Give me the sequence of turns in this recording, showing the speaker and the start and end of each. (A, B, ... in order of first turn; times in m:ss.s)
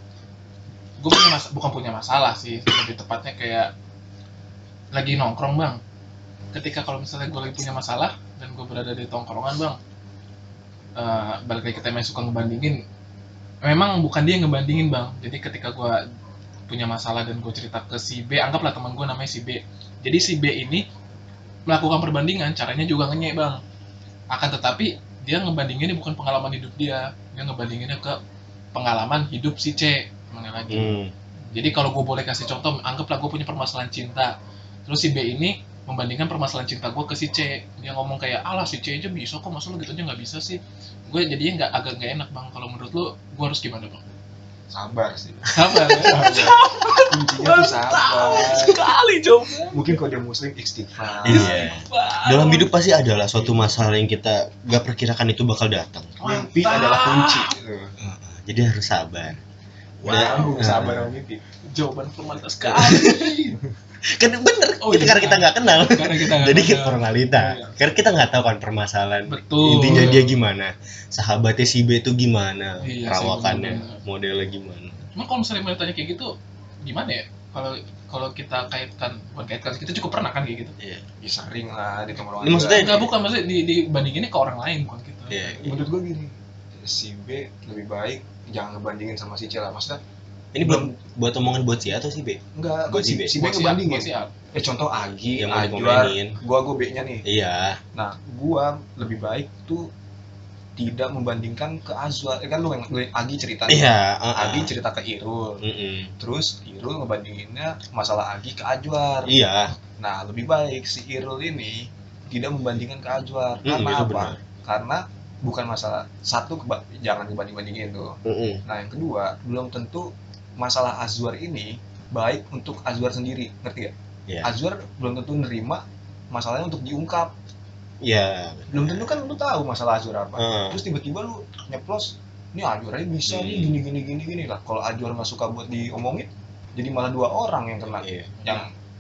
0:01.0-0:03.7 A
0:04.9-0:05.8 A
0:06.5-0:09.8 A
0:11.0-0:12.8 A
0:13.6-0:16.0 A
0:16.7-0:20.8 A
0:21.7-0:23.6 A
0:24.3-0:28.2 A
0:28.7-0:31.0 A
0:30.7-0:31.1 B
0:31.5-0:34.3 A
0:34.9-0:44.0 A
0:44.7-0:48.8 C
0:45.5-0:50.0 A
0:49.7-0:51.6 C
0:51.2-0:56.2 B
0:51.3-0:52.7 A
0:56.2-0:57.5 A
0:56.2-0:57.9 C
0:58.0-0:59.4 B
1:00.0-1:00.6 A
1:00.1-1:01.1 B
1:00.1-1:01.4 C
1:01.6-1:03.6 A
1:02.6-1:03.4 B
1:04.0-1:15.0 B
1:04.8-1:07.8 A
1:09.3-1:10.4 A
1:12.8-1:14.0 A
1:15.2-1:20.7 A
1:21.2-1:22.8 C
1:22.4-1:23.1 B
1:22.7-1:25.6 A
1:25.3-1:25.9 B
1:25.6-1:26.3 C
1:26.8-1:30.0 C
1:30.5-1:33.4 B
1:30.6-1:31.0 C
1:32.6-1:37.2 C
1:33.4-1:34.3 A
1:35.4-1:36.4 B
1:37.2-1:37.8 B
1:38.0-1:39.9 C
1:40.8-1:43.9 C
1:43.7-1:44.7 B
1:44.4-1:45.6 C
1:45.6-1:46.1 B
1:46.2-1:49.4 C
1:49.3-1:49.7 B
1:50.0-2:07.3 C
1:53.6-1:54.4 B
1:58.2-1:58.6 B
2:04.3-2:04.5 B
2:08.0-2:09.2 B
2:08.7-2:18.7 C
2:10.4-2:10.8 B
2:13.3-2:13.8 B
2:18.0-2:18.3 B